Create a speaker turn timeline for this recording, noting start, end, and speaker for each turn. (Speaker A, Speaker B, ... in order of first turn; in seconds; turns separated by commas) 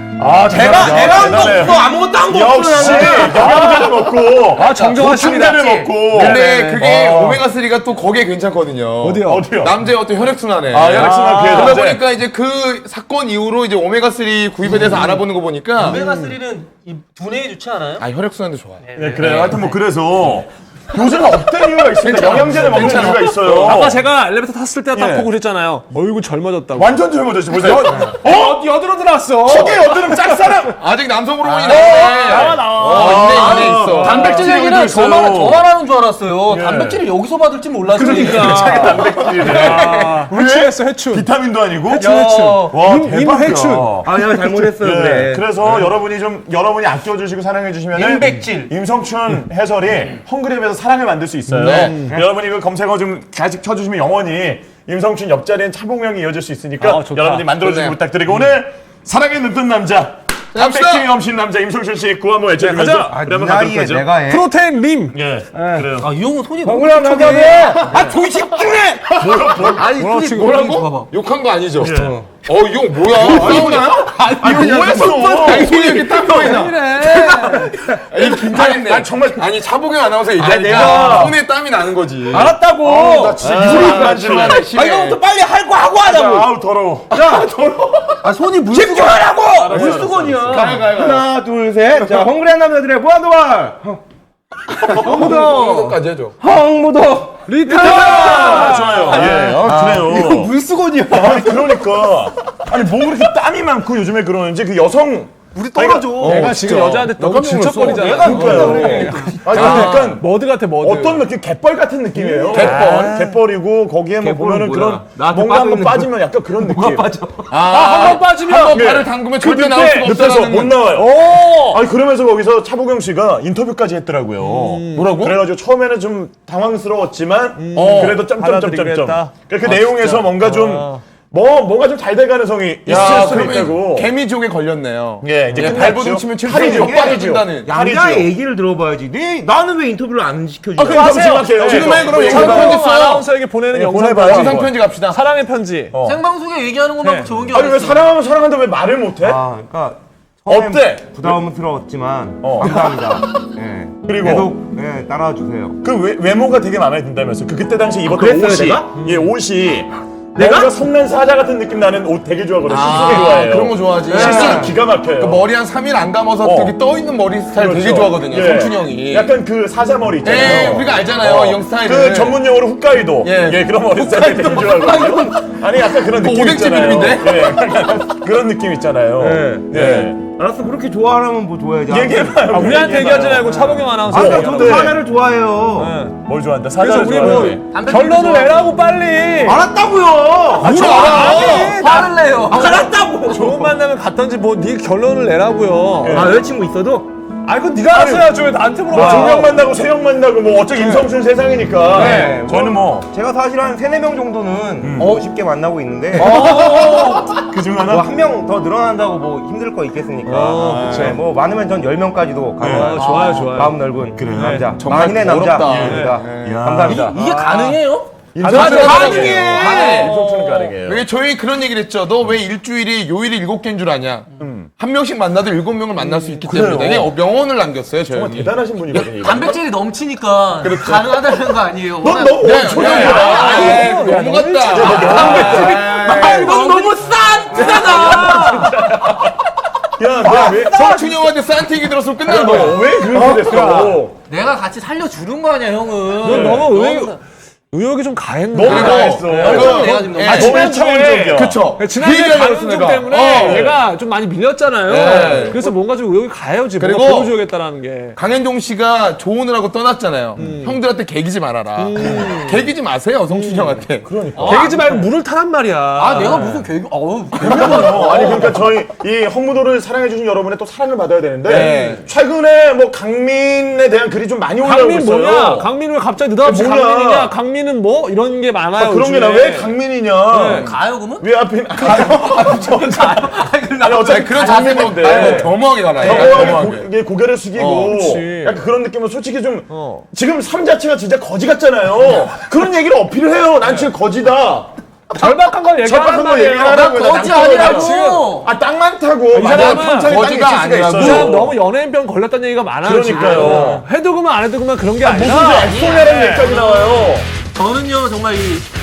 Speaker A: 0.2-1.6, Speaker B: 0.5-3.6, Speaker C: 0.5-7.4, Speaker A: 2.8-7.4, Speaker D: 5.1-5.9, Speaker E: 6.1-16.0, Speaker A: 9.0-9.5, Speaker C: 9.2-9.8, Speaker C: 10.7-12.0, Speaker A: 10.8-11.8, Speaker D: 15.8-18.1, Speaker A: 15.9-16.3, Speaker E: 18.0-19.6, Speaker D: 18.8-19.7, Speaker C: 19.0-24.0, Speaker E: 22.0-23.9, Speaker A: 23.2-27.0, Speaker C: 24.9-25.3, Speaker C: 26.8-28.6, Speaker A: 27.5-30.5, Speaker C: 29.4-30.8, Speaker E: 30.8-34.4, Speaker D: 31.5-40.3, Speaker A: 31.6-34.5, Speaker C: 32.8-35.6, Speaker C: 36.5-37.0, Speaker A: 37.9-41.3, Speaker C: 38.0-64.1, Speaker A: 41.9-44.0, Speaker D: 42.0-42.7, Speaker B: 44.0-45.6, Speaker D: 48.0-48.7, Speaker E: 51.6-52.0, Speaker A: 51.6-52.1, Speaker A: 56.8-57.5, Speaker E: 57.6-58.0, Speaker E: 60.5-61.1, Speaker A: 62.6-63.1, Speaker B: 63.1-64.5, Speaker A: 64.2-65.2, Speaker C: 65.1-66.1, Speaker B: 65.5-66.1, Speaker D: 66.0-68.2, Speaker B: 66.6-69.7, Speaker C: 69.2-69.9, Speaker D: 69.6-71.1, Speaker A: 69.8-70.6, Speaker E: 70.2-85.2, Speaker C: 71.8-72.2, Speaker B: 71.8-72.3, Speaker C: 73.1-73.8, Speaker B: 73.2-73.8, Speaker D: 73.3-78.1, Speaker C: 74.4-75.9, Speaker B: 74.5-75.0, Speaker A: 76.2-77.7, Speaker C: 78.2-79.5, Speaker C: 80.4-81.4, Speaker B: 80.7-81.3, Speaker B: 82.3-86.5, Speaker D: 82.4-83.4, Speaker C: 83.4-84.7, Speaker C: 86.0-87.1, Speaker B: 87.1-88.2, Speaker D: 87.1-87.5, Speaker D: 88.2-90.8, Speaker B: 88.7-94.0, Speaker C: 89.6-90.7, Speaker E: 90.4-91.2, Speaker B: 94.7-95.6, Speaker E: 94.9-96.4, Speaker D: 95.0-95.9, Speaker A: 95.1-95.9, Speaker B: 96.4-98.0, Speaker A: 97.5-99.4, Speaker D: 97.6-101.8, Speaker C: 97.7-100.5, Speaker B: 99.6-100.3, Speaker C: 101.1-106.9, Speaker D: 105.5-106.6, Speaker E: 106.2-110.2, Speaker A: 106.2-111.2, Speaker B: 107.8-109.4, Speaker D: 107.8-109.6, Speaker C: 108.2-110.3, Speaker C: 110.8-117.1, Speaker A: 112.3-113.4, Speaker E: 112.5-113.2, Speaker B: 114.2-117.6, Speaker E: 117.5-120.8, Speaker A: 117.6-118.8, Speaker C: 118.7-134.1, Speaker A: 119.6-120.1, Speaker A: 120.9-121.8, Speaker A: 124.4-125.1, Speaker E: 125.0-125.4, Speaker A: 127.6-131.0, Speaker E: 127.7-128.2, Speaker E: 132.9-137.7, Speaker C: 135.2-138.3, Speaker B: 135.6-141.5, Speaker C: 140.8-142.9, Speaker A: 140.8-145.9, Speaker E: 141.5-143.3, Speaker C: 143.7-144.7, Speaker E: 144.2-145.2, Speaker C: 145.9-146.2, Speaker D: 146.0-148.1, Speaker A: 147.0-147.3, Speaker C: 147.5-149.4, Speaker B: 149.2-155.8, Speaker C: 150.5-151.4, Speaker C: 152.4-153.0, Speaker C: 154.1-154.5, Speaker C: 155.8-165.5, Speaker B: 158.1-159.0, Speaker A: 159.0-159.3, Speaker B: 160.4-160.8, Speaker E: 162.7-169.3, Speaker B: 162.9-163.2, Speaker B: 164.1-164.8, Speaker C: 166.4-166.8, Speaker C: 167.5-180.2, Speaker E: 170.2-172.4, Speaker E: 173.2-173.6, Speaker D: 173.9-175.6, Speaker E: 176.1-177.7, Speaker B: 179.2-182.9, Speaker C: 181.9-185.0, Speaker A: 182.5-184.9, Speaker B: 184.1-186.0, Speaker A: 185.8-186.2, Speaker C: 186.2-187.6, Speaker A: 186.8-189.7, Speaker D: 187.7-188.7, Speaker B: 189.4-190.9, Speaker C: 190.6-191.7, Speaker E: 190.6-191.7, Speaker A: 190.6-192.2, Speaker D: 191.0-192.9, Speaker B: 191.8-193.8, Speaker A: 193.2-196.3, Speaker C: 196.0-196.4, Speaker B: 196.0-197.1, Speaker A: 197.4-199.6, Speaker C: 197.9-203.1, Speaker B: 198.9-199.4, Speaker A: 200.8-201.1, Speaker B: 201.9-206.8, Speaker A: 201.9-202.5, Speaker C: 204.8-205.2, Speaker A: 206.2-207.4, Speaker C: 206.2-208.1, Speaker E: 206.2-206.9, Speaker B: 207.8-217.2, Speaker A: 210.2-211.2, Speaker C: 210.5-211.2, Speaker C: 212.6-213.0, Speaker A: 212.6-213.8, Speaker D: 213.0-213.5, Speaker C: 214.2-214.8, Speaker A: 214.3-214.8, Speaker E: 214.8-216.7, Speaker C: 215.6-217.1, Speaker A: 215.8-216.3, Speaker D: 216.9-218.2, Speaker A: 217.2-217.8, Speaker C: 218.3-221.1, Speaker A: 218.4-220.8, Speaker E: 218.4-220.2, Speaker B: 218.6-220.1, Speaker D: 218.8-219.8, Speaker E: 220.8-228.5, Speaker C: 224.4-224.7, Speaker A: 226.2-226.4, Speaker C: 226.4-227.1, Speaker C: 228.1-229.6, Speaker D: 228.9-233.9, Speaker E: 230.6-231.0, Speaker C: 230.7-231.0, Speaker C: 232.0-234.0, Speaker E: 232.4-236.6, Speaker A: 232.8-238.7, Speaker C: 234.7-236.7, Speaker D: 234.9-238.8, Speaker C: 237.5-239.4, Speaker C: 240.0-241.0, Speaker E: 240.2-243.0, Speaker A: 240.4-241.1, Speaker C: 242.2-244.1, Speaker A: 242.3-244.0, Speaker D: 244.3-247.2, Speaker A: 246.2-247.2, Speaker C: 246.2-246.7, Speaker A: 247.7-258.2, Speaker C: 248.5-251.6, Speaker E: 248.6-250.8, Speaker D: 248.7-250.7, Speaker E: 251.3-253.7, Speaker C: 253.4-253.8, Speaker E: 254.9-255.6, Speaker C: 255.1-255.7, Speaker E: 256.8-257.3, Speaker E: 258.2-264.8, Speaker A: 260.4-260.8, Speaker A: 261.8-262.6, Speaker C: 262.0-262.3, Speaker A: 263.3-263.8, Speaker C: 264.1-265.1, Speaker D: 264.4-264.7, Speaker A: 264.4-266.7, Speaker D: 266.0-268.6, Speaker C: 267.4-275.7, Speaker E: 271.5-272.0, Speaker A: 271.5-272.0, Speaker A: 274.6-279.8, Speaker C: 276.4-277.3, Speaker C: 278.8-283.2, Speaker E: 280.3-280.8, Speaker A: 280.4-280.6, Speaker D: 280.4-285.5, Speaker C: 283.8-294.8, Speaker E: 283.9-286.9, Speaker D: 286.1-286.4, Speaker E: 287.6-287.9, Speaker A: 287.6-288.6, Speaker A: 289.7-290.1, Speaker A: 295.1-298.4, Speaker C: 295.8-301.5, Speaker D: 296.6-298.5, Speaker A: 299.3-300.2, Speaker E: 299.5-301.5, Speaker A: 300.9-306.5, Speaker C: 302.8-303.9, Speaker D: 303.1-303.7, Speaker C: 305.0-307.3, Speaker D: 305.5-308.7